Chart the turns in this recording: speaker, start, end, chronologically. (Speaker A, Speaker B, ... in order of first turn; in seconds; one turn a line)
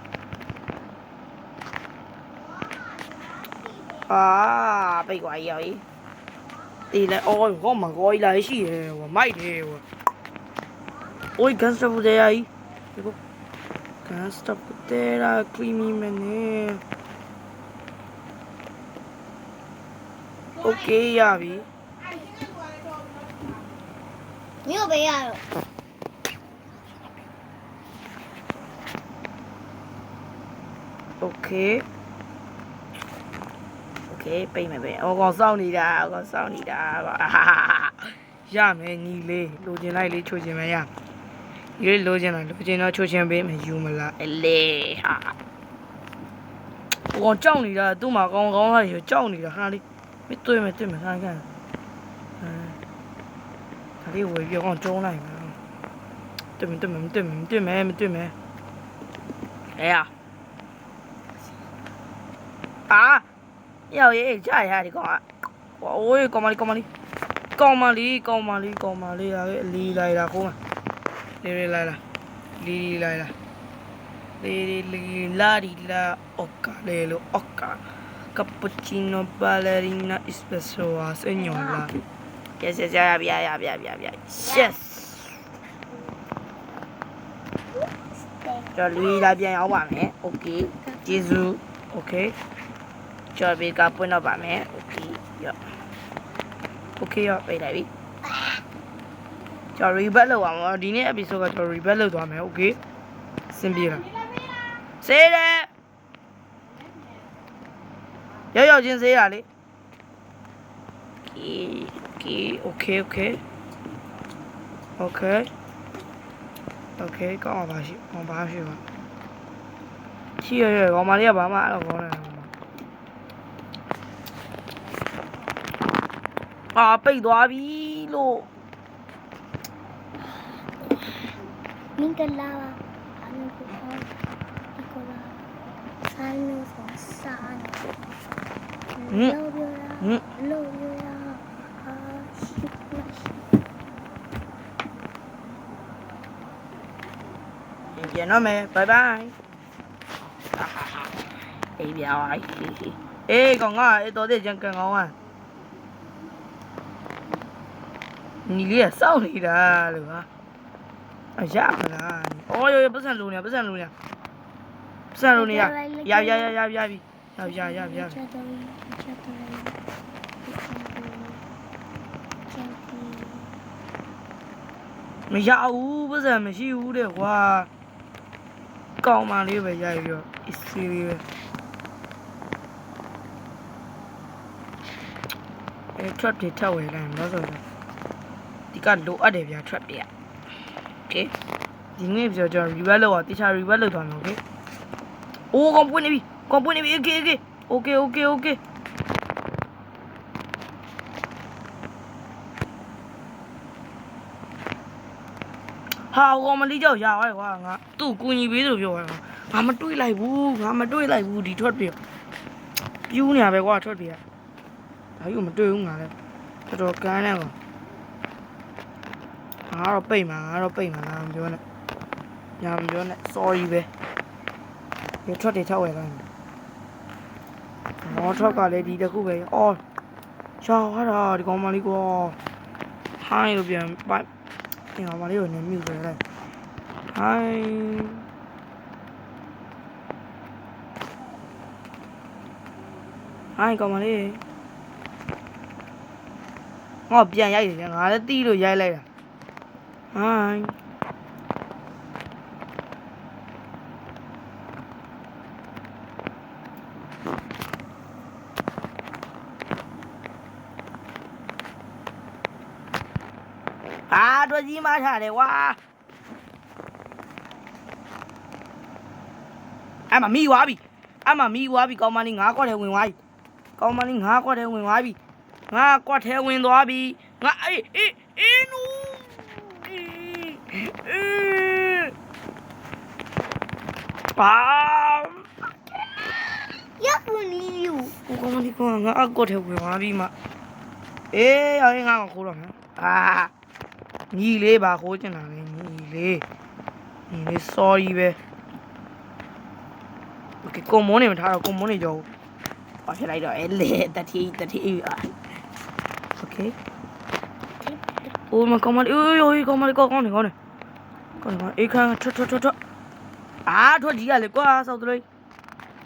Speaker A: 4.1-5.8
Speaker A: 6.9-9.8
Speaker A: 11.4-13.2
Speaker A: 14.1-16.8
Speaker A: 20.6-21.7
Speaker B: 24.6-25.4
Speaker A: 31.2-31.9
Speaker A: 34.1-40.9
Speaker A: 41.8-45.3
Speaker A: 47.1-51.5
Speaker A: 52.4-52.8
Speaker A: 54.0-55.6
Speaker A: 56.6-58.3
Speaker A: 59.7-60.1
Speaker A: 62.9-63.2
Speaker A: 63.9-65.2
Speaker A: 65.8-66.9
Speaker A: 67.6-70.6
Speaker A: 71.4-72.0
Speaker A: 72.6-73.3
Speaker A: 74.4-81.9
Speaker B: 81.4-81.8
Speaker A: 82.6-85.4
Speaker B: 84.5-84.8
Speaker B: 87.7-89.3
Speaker A: 88.8-92.4
Speaker A: 93.3-95.7
Speaker A: 97.0-97.9
Speaker A: 99.8-102.8
Speaker A: 103.5-104.0
Speaker A: 105.0-105.7
Speaker A: 108.5-109.5
Speaker A: 111.3-113.4
Speaker A: 115.0-115.5
Speaker A: 117.0-118.8
Speaker A: 120.4-122.5
Speaker A: 126.7-128.5
Speaker B: 130.2-131.3
Speaker B: 131.9-134.2
Speaker B: 134.8-135.4
Speaker B: 136.0-137.9
Speaker B: 138.9-143.5
Speaker A: 139.1-139.4
Speaker A: 147.9-149.3
Speaker A: 150.6-151.1
Speaker A: 151.8-155.1
Speaker A: 158.4-160.3
Speaker A: 161.4-163.9
Speaker A: 165.1-168.2
Speaker B: 165.3-166.5
Speaker B: 167.4-169.8
Speaker B: 170.4-171.4
Speaker B: 172.5-173.6
Speaker A: 175.3-177.7
Speaker A: 179.0-181.2
Speaker A: 186.0-187.6
Speaker A: 188.7-190.1
Speaker A: 192.0-194.4
Speaker A: 195.5-198.6
Speaker A: 205.9-212.0
Speaker A: 213.1-214.2
Speaker A: 215.2-216.1
Speaker A: 216.7-217.6
Speaker A: 219.7-221.6
Speaker A: 222.6-223.9
Speaker A: 225.2-226.2
Speaker B: 228.0-229.0
Speaker A: 228.1-229.8
Speaker A: 230.6-232.4
Speaker A: 233.2-234.3
Speaker A: 235.0-236.2
Speaker A: 237.1-238.2
Speaker A: 243.6-244.4
Speaker A: 247.1-249.1
Speaker A: 250.1-250.8
Speaker A: 264.1-265.8
Speaker A: 270.1-273.2
Speaker A: 273.8-275.2
Speaker A: 275.7-282.1
Speaker A: 284.4-285.5
Speaker B: 286.9-288.1
Speaker A: 288.1-290.3
Speaker A: 291.3-293.5
Speaker A: 294.3-296.4
Speaker A: 297.3-298.4
Speaker A: 300.6-302.3
Speaker A: 303.1-305.4
Speaker A: 306.4-306.8
Speaker B: 307.8-308.3
Speaker A: 308.5-310.5
Speaker A: 311.4-312.8
Speaker A: 313.7-315.2